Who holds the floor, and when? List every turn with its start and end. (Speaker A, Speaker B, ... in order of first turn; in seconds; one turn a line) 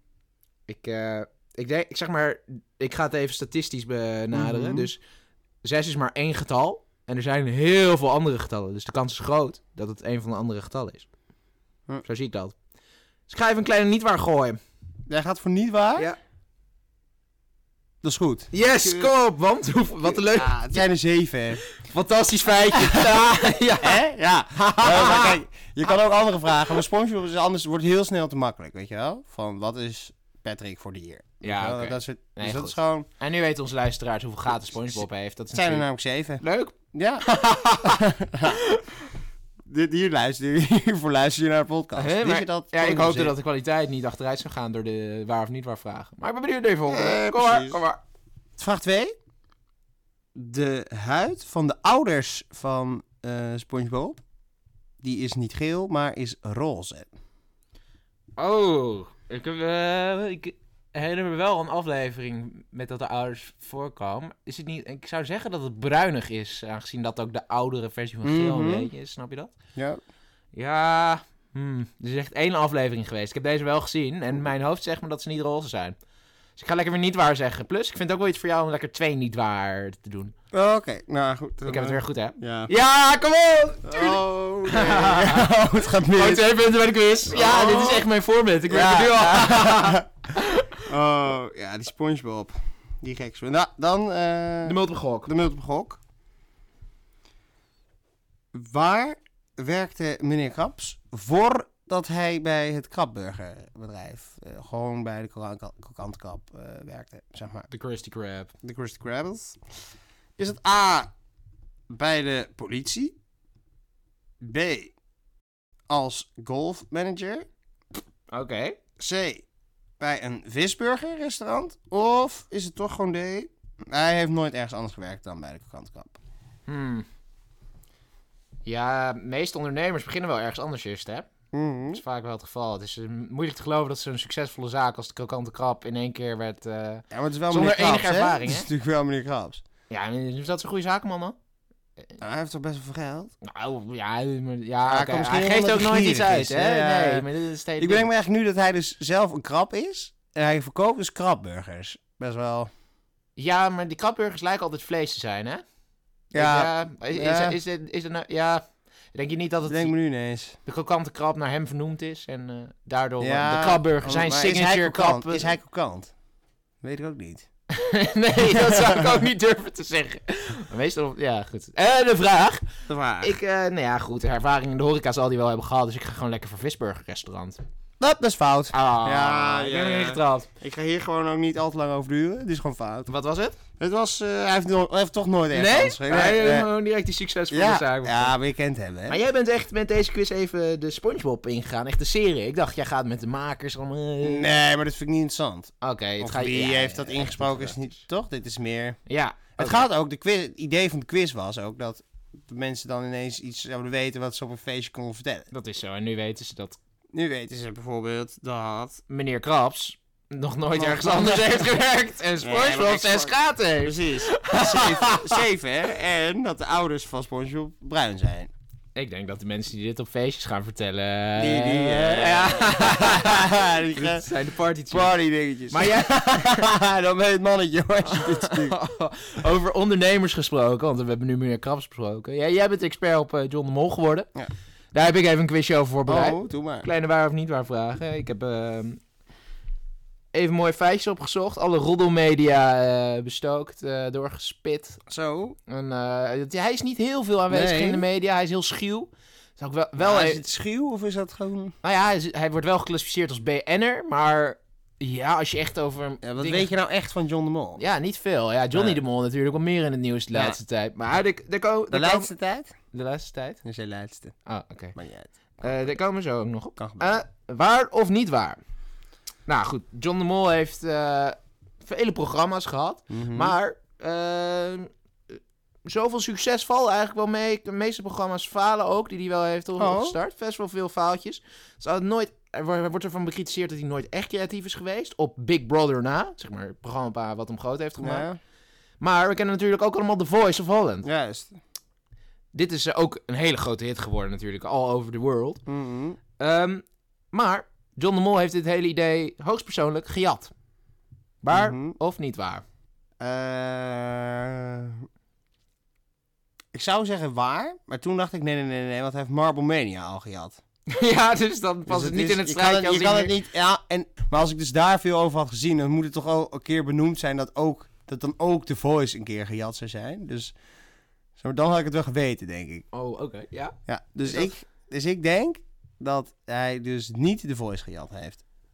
Speaker A: 0.7-5.0
Speaker B: 4.3-4.9
Speaker A: 5.6-11.1
Speaker A: 12.0-12.5
Speaker A: 13.3-14.6
Speaker B: 15.1-16.1
Speaker B: 18.0-19.1
Speaker A: 18.5-20.8
Speaker B: 20.0-21.6
Speaker A: 21.7-24.0
Speaker B: 22.7-23.0
Speaker B: 23.8-33.1
Speaker A: 24.6-25.4
Speaker A: 31.4-35.9
Speaker B: 34.7-38.6
Speaker A: 36.4-36.8
Speaker A: 38.5-38.8
Speaker B: 39.7-43.3
Speaker A: 42.0-48.0
Speaker B: 46.9-47.8
Speaker B: 48.6-49.1
Speaker B: 50.3-54.2
Speaker B: 55.0-57.1
Speaker A: 58.4-69.5
Speaker B: 68.2-68.9
Speaker A: 70.5-76.0
Speaker A: 76.6-80.3
Speaker B: 80.5-82.7
Speaker A: 81.7-90.8
Speaker B: 83.8-86.5
Speaker B: 87.3-88.0
Speaker B: 88.7-90.1
Speaker B: 90.8-96.0
Speaker A: 94.6-95.3
Speaker B: 98.5-107.7
Speaker A: 107.7-108.5
Speaker B: 108.6-109.6
Speaker B: 110.4-111.1
Speaker B: 111.9-113.1
Speaker B: 114.4-114.9
Speaker B: 115.9-117.5
Speaker A: 118.3-118.8
Speaker B: 119.0-119.4
Speaker B: 120.0-126.2
Speaker A: 126.7-127.0
Speaker A: 128.7-131.3
Speaker B: 131.5-132.0
Speaker A: 131.9-138.7
Speaker B: 137.1-139.6
Speaker A: 139.9-141.3
Speaker B: 142.2-143.3
Speaker A: 143.4-148.1
Speaker B: 144.8-147.2
Speaker B: 147.8-152.7
Speaker A: 153.3-155.6
Speaker A: 156.3-159.9
Speaker B: 156.3-157.6
Speaker B: 159.7-160.6
Speaker A: 160.7-165.5
Speaker B: 163.2-166.1
Speaker B: 166.8-167.5
Speaker A: 167.7-172.7
Speaker B: 168.4-169.2
Speaker B: 172.9-173.3
Speaker A: 173.2-177.6
Speaker B: 178.0-183.1
Speaker A: 178.7-180.5
Speaker A: 183.1-183.6
Speaker B: 183.8-186.7
Speaker A: 185.5-188.3
Speaker B: 187.5-189.2
Speaker A: 189.1-194.5
Speaker B: 194.2-199.0
Speaker A: 195.8-197.8
Speaker A: 199.1-199.8
Speaker B: 199.6-205.5
Speaker A: 205.5-206.8
Speaker B: 207.1-209.0
Speaker A: 209.1-215.4
Speaker B: 210.8-211.6
Speaker B: 212.4-218.5
Speaker A: 218.9-225.1
Speaker B: 221.4-224.2
Speaker B: 224.9-228.8
Speaker A: 225.7-226.7
Speaker A: 228.1-234.3
Speaker A: 234.9-239.0
Speaker B: 236.1-236.9
Speaker A: 240.3-245.0
Speaker B: 245.1-245.6
Speaker A: 245.7-250.4
Speaker B: 247.5-248.0
Speaker B: 250.0-251.7
Speaker A: 251.8-256.7
Speaker B: 256.2-257.8
Speaker A: 257.8-262.3
Speaker B: 258.7-259.0
Speaker B: 260.3-260.6
Speaker B: 261.9-262.7
Speaker A: 262.9-263.6
Speaker B: 263.6-264.3
Speaker A: 264.5-265.0
Speaker B: 264.9-265.7
Speaker A: 265.6-268.6
Speaker B: 266.8-267.2
Speaker A: 269.5-275.3
Speaker B: 273.1-273.6
Speaker A: 275.9-288.3
Speaker B: 279.8-280.2
Speaker B: 288.0-288.4
Speaker A: 289.0-291.1
Speaker B: 291.0-291.6
Speaker A: 292.5-295.6
Speaker B: 295.7-296.2
Speaker A: 296.4-300.5
Speaker A: 301.4-302.6
Speaker B: 301.5-302.0
Speaker B: 303.2-305.1
Speaker B: 306.7-310.6
Speaker A: 310.9-313.3
Speaker B: 311.9-320.5
Speaker B: 321.4-322.9
Speaker A: 322.9-324.5
Speaker B: 323.9-328.4